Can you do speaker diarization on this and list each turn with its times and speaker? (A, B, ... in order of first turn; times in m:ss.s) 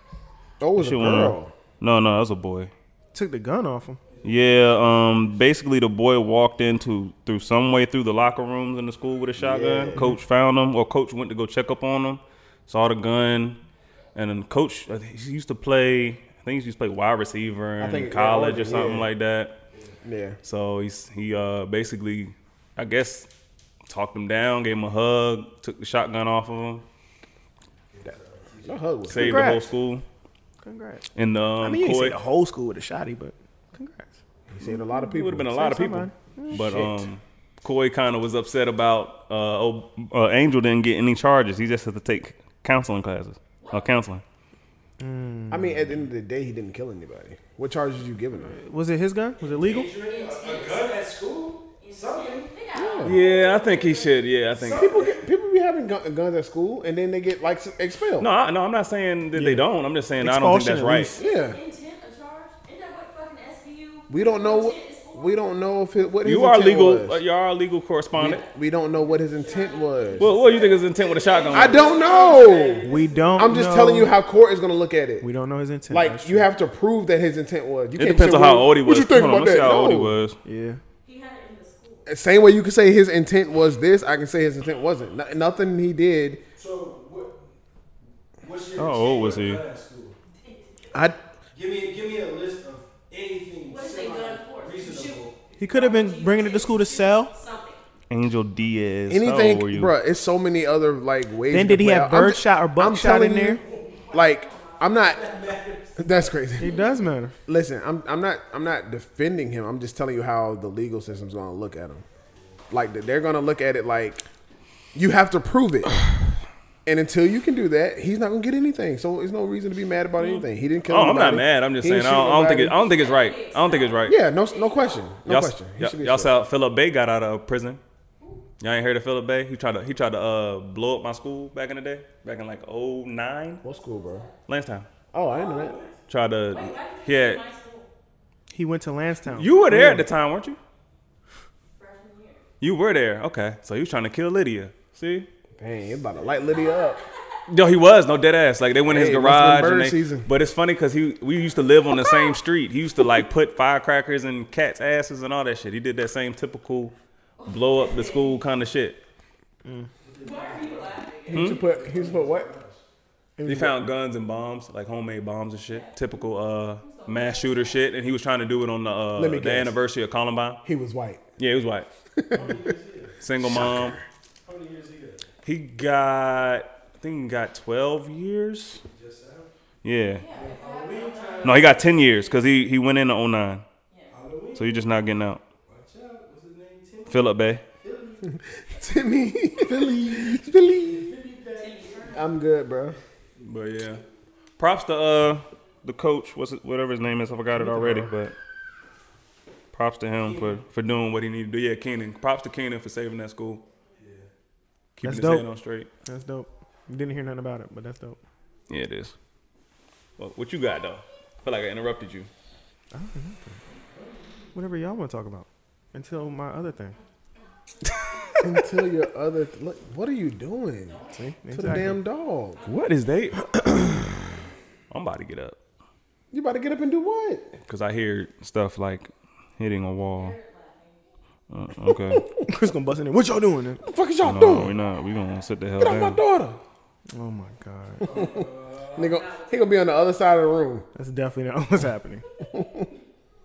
0:00.6-0:01.5 A
0:00.8-0:02.7 B
0:03.1-0:04.0 C
0:04.1-0:05.1 D
0:04.2-0:13.6 B
0:09.4-0:10.1 A
0:14.2-0:19.6 B
0:17.8-0:19.1 A
0:19.7-0:20.0 D
0:20.0-0:20.4 A
0:20.4-0:23.3 B
0:23.9-0:26.8 B
0:27.9-0:28.9 D
0:28.6-0:29.7 A
0:29.1-0:30.0 B
0:29.1-0:29.7 C
0:30.6-0:31.0 C
0:31.2-0:32.2 B
0:31.6-0:34.2 C
0:34.5-0:35.6 A
0:35.0-0:44.2 B
0:35.5-0:37.1 C
0:43.6-0:44.0 E
0:45.0-0:45.9 C
0:45.5-0:48.6 A
0:48.5-0:49.9 C
0:49.4-0:52.5 D
0:50.1-0:51.0 E
0:51.8-0:54.4 E
0:52.8-0:53.2 A
0:53.0-0:55.0 B
0:54.6-0:55.3 D
0:54.7-0:58.3 A
0:58.2-1:01.2 B
0:59.3-0:59.7 C
1:00.2-1:01.2 C
1:01.2-1:01.6 A
1:01.2-1:05.4 E
1:04.1-1:07.2 A
1:06.2-1:08.4 B
1:08.1-1:10.5 A
1:09.0-1:13.5 E
1:10.2-1:12.0 B
1:11.5-1:15.3 A
1:12.8-1:14.2 C
1:15.2-1:16.5 C
1:15.9-1:20.2 A
1:18.0-1:20.4 B
1:20.4-1:20.8 C
1:21.0-1:22.1 E
1:22.1-1:26.4 A
1:26.6-1:27.5 D
1:28.4-1:30.2 D
1:28.8-1:29.6 B
1:30.4-1:30.7 E
1:31.5-1:35.4 D
1:33.7-1:37.8 E
1:35.6-1:37.3 C
1:38.1-1:39.9 B
1:39.1-1:45.2 A
1:41.5-1:43.6 C
1:43.6-1:44.0 D
1:43.9-1:45.0 E
1:45.0-1:46.5 D
1:46.0-1:46.8 A
1:46.6-1:47.4 C
1:46.6-1:47.0 E
1:47.5-1:52.0 A
1:52.4-1:52.6 D
1:52.7-1:54.2 A
1:54.9-1:56.0 A
1:56.9-2:02.8 A
2:00.2-2:04.2 B
2:02.8-2:05.1 E
2:04.1-2:06.3 A
2:05.3-2:07.8 B
2:08.6-2:13.6 B
2:13.6-2:14.3 A
2:13.6-2:14.4 E
2:14.5-2:14.9 B
2:15.1-2:15.8 A
2:15.4-2:15.7 E
2:15.4-2:16.0 D
2:16.1-2:17.4 B
2:16.5-2:17.9 E
2:18.5-2:20.1 C
2:19.3-2:20.6 B
2:21.8-2:22.4 E
2:22.6-2:25.3 B
2:25.6-2:27.0 A
2:26.2-2:26.5 D
2:26.5-2:27.4 E
2:27.5-2:39.0 B
2:28.8-2:30.3 A
2:31.9-2:32.4 E
2:37.4-2:38.4 E
2:40.0-2:42.8 D
2:40.2-2:41.4 E
2:41.3-2:42.5 A
2:41.3-2:41.6 B
2:43.4-2:43.8 C
2:43.4-2:50.6 B
2:45.7-2:46.3 E
2:46.8-2:47.8 E
2:49.2-2:49.8 A
2:50.6-2:51.2 A
2:51.4-2:51.9 B
2:52.2-2:52.6 A
2:52.3-2:53.2 D
2:53.2-2:54.0 B
2:53.4-2:54.0 A
2:54.4-2:55.3 D
2:55.4-2:58.8 B
2:58.8-2:59.5 D
2:59.8-3:00.3 B
3:00.1-3:02.4 E
3:00.3-3:01.8 D
3:01.4-3:03.6 B
3:04.1-3:04.8 D
3:04.6-3:05.4 B
3:05.7-3:08.3 D
3:07.1-3:07.6 B
3:08.2-3:11.1 A
3:10.2-3:12.2 D
3:11.6-3:12.3 E
3:12.1-3:13.0 A
3:13.4-3:14.0 B
3:14.6-3:18.4 B
3:17.6-3:18.1 C
3:19.7-3:23.6 B
3:20.2-3:20.6 D
3:24.0-3:24.3 D
3:25.0-3:25.9 B
3:25.0-3:25.5 C
3:26.0-3:28.2 C
3:28.7-3:29.2 B
3:30.2-3:32.3 B
3:32.9-3:33.6 C
3:33.8-3:34.5 D
3:34.5-3:37.0 C
3:38.4-3:41.0 A
3:40.9-3:41.2 E
3:41.1-3:42.0 C
3:41.5-3:42.7 A
3:42.6-3:43.7 B
3:43.4-3:44.2 C
3:44.9-3:45.6 B
3:46.3-3:47.5 A
3:47.7-3:50.4 B
3:50.2-3:51.0 E
3:51.5-3:52.3 B
3:52.5-3:53.8 C
3:53.8-3:54.7 A
3:54.2-3:56.2 B
3:55.8-3:56.6 A
3:57.1-3:58.1 C
3:58.0-3:59.1 D
3:58.0-4:00.8 A
4:01.0-4:02.2 C
4:02.5-4:02.9 A